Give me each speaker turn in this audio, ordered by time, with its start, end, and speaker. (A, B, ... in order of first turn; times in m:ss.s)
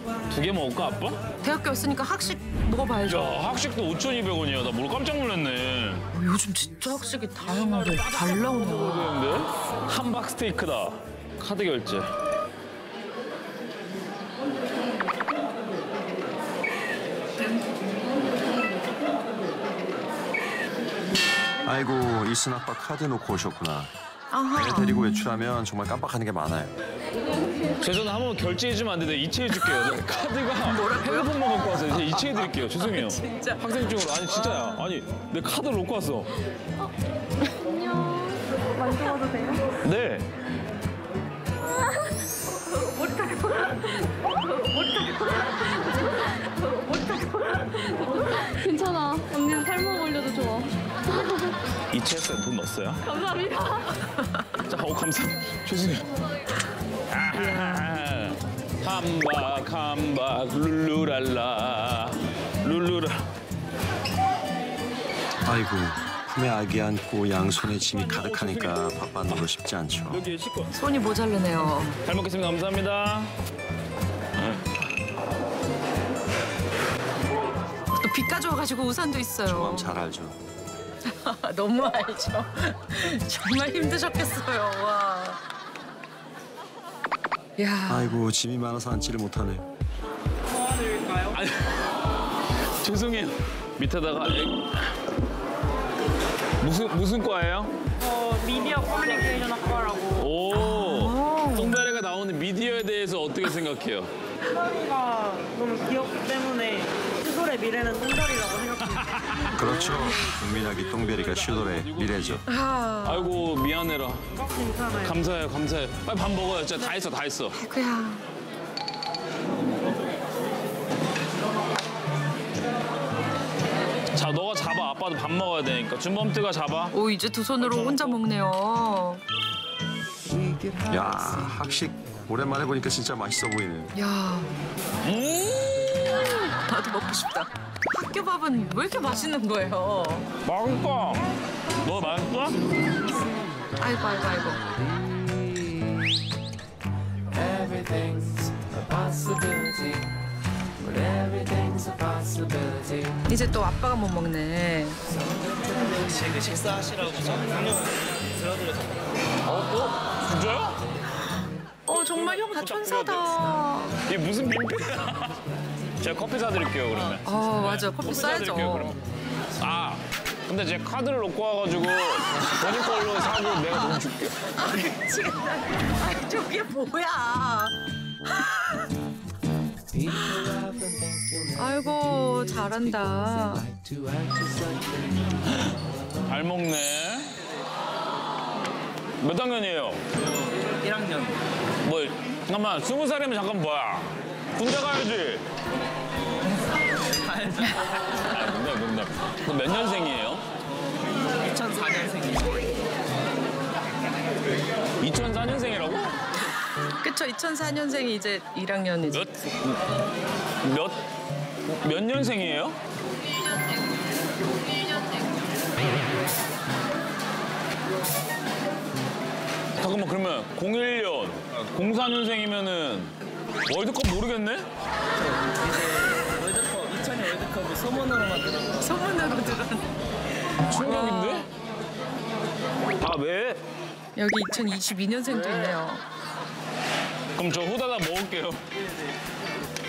0:00.3-0:01.2 A
0:01.4-0:03.3 B
0:03.0-0:06.1 A
0:06.1-0:09.3 B
0:07.4-0:12.1 A
0:21.6-0:23.9 C
0:24.3-0:25.5 B
0:24.5-0:26.7 C
0:27.8-0:36.3 A
0:30.6-0:34.9 B
0:38.8-0:39.7 D
0:39.8-0:40.3 A
0:43.0-0:43.8 D
0:44.8-0:45.5 D
0:46.8-0:50.7 D
0:51.9-0:53.2 A
0:53.5-0:54.5 B
0:54.5-0:56.0 A
0:57.1-1:03.2 A
0:57.3-0:57.9 B
1:05.4-1:10.2 C
1:07.8-1:09.5 A
1:10.1-1:10.7 A
1:10.7-1:12.0 B
1:12.0-1:13.3 A
1:14.4-1:14.7 A
1:17.9-1:19.9 B
1:19.4-1:20.4 C
1:21.0-1:25.4 B
1:27.6-1:28.2 B
1:27.9-1:29.7 C
1:30.6-1:31.3 E
1:31.3-1:31.8 A
1:32.8-1:34.9 A
1:36.6-1:37.7 A
1:38.0-1:40.2 E
1:40.1-1:44.1 A
1:40.5-1:41.8 B
1:44.6-1:48.8 E
1:48.8-1:52.4 A
1:49.5-1:52.4 C
1:52.5-1:53.3 B
1:53.0-1:54.2 A
1:54.5-1:55.1 E
1:55.0-1:57.6 A
1:57.5-1:58.2 B
2:04.1-2:06.9 A
2:06.9-2:09.2 B
2:07.6-2:08.2 A
2:10.8-2:13.9 C
2:13.9-2:14.5 B
2:15.0-2:16.5 A
2:16.6-2:20.3 B
2:20.4-2:21.3 A
2:21.8-2:22.6 A
2:23.8-2:24.7 B
2:33.2-2:35.0 B
2:36.0-2:37.8 A
2:38.4-2:38.7 A
2:39.4-2:40.8 A
2:41.9-2:44.0 B
2:41.9-2:45.4 A
2:46.0-2:49.0 A
2:47.2-2:49.0 B
2:49.6-2:54.5 A
2:54.6-2:57.7 B
2:58.2-2:58.9 B
3:00.0-3:03.7 B
3:06.2-3:07.3 A
3:09.2-3:10.0 A
3:11.8-3:15.5 A
3:18.1-3:20.4 A
3:21.5-3:22.4 F
3:25.0-3:26.2 A
3:27.0-3:29.3 B
3:29.1-3:29.8 A
3:30.6-3:31.0 A
3:31.6-3:32.8 A
3:39.8-3:44.7 A
3:46.7-3:48.5 F
3:48.8-3:49.9 B
3:50.6-3:51.5 A
3:50.7-3:51.4 B
3:53.0-3:53.6 A
3:54.2-3:56.0 B
3:55.4-3:55.7 A
3:57.4-3:58.6 A